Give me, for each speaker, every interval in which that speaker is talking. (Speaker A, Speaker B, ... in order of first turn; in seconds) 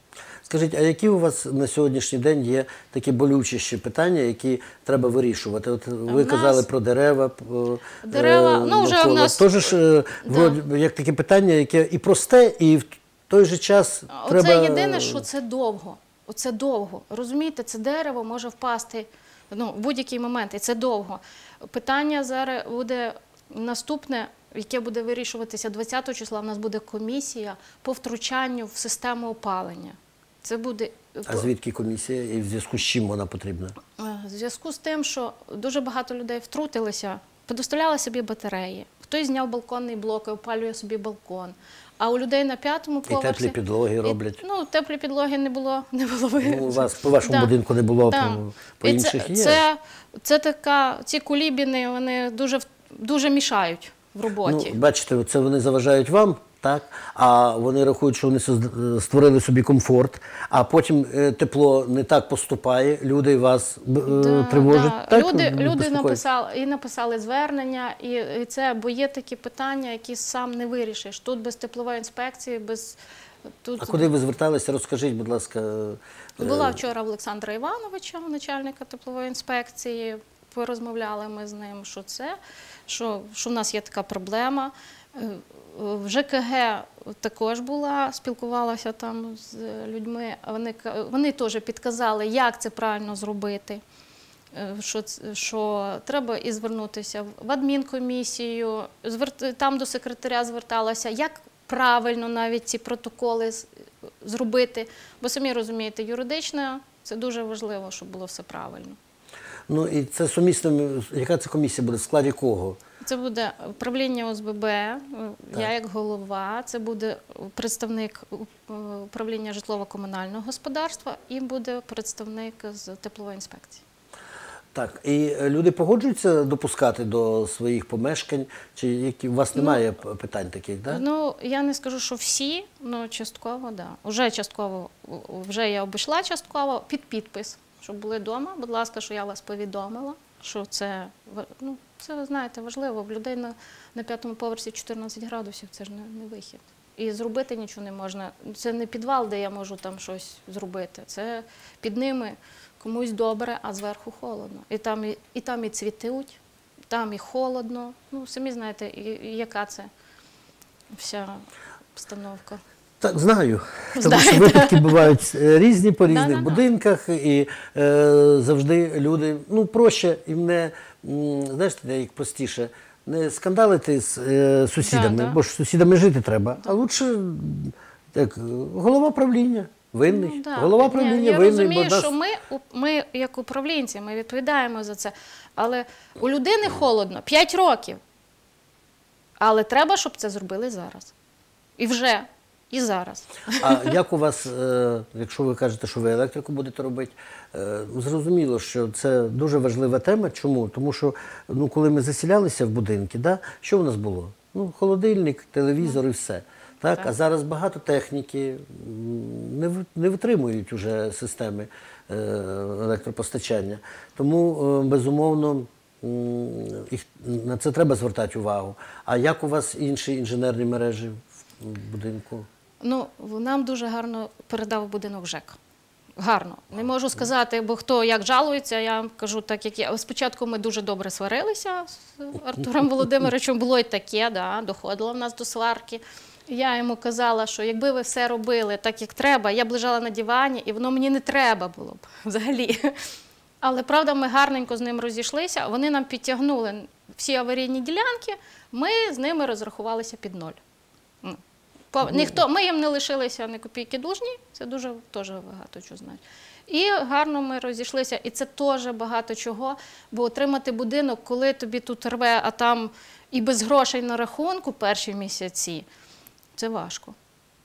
Speaker A: 0.5-15.2, 31.3-33.8, 43.1-44.4, 46.4-49.6, 54.4-66.2, 73.8-76.7, 109.7-112.8, 124.7-131.0, 163.0-182.1, 193.6-222.5
Speaker B: 6.1-6.7, 8.0-10.6, 14.1-31.5, 34.0-47.5, 48.0-54.8, 64.0-73.0, 73.6-74.1, 76.4-93.8, 94.5-103.7, 104.2-109.0, 113.0-123.8, 129.5-129.8, 130.9-156.4, 156.9-159.9, 160.9-162.6, 164.0-165.1, 166.1-166.6, 174.8-175.4, 180.1-188.0, 189.4-191.1, 191.8-193.9, 222.8-225.6, 226.2-243.0, 243.6-250.6, 251.9-265.9, 266.6-267.1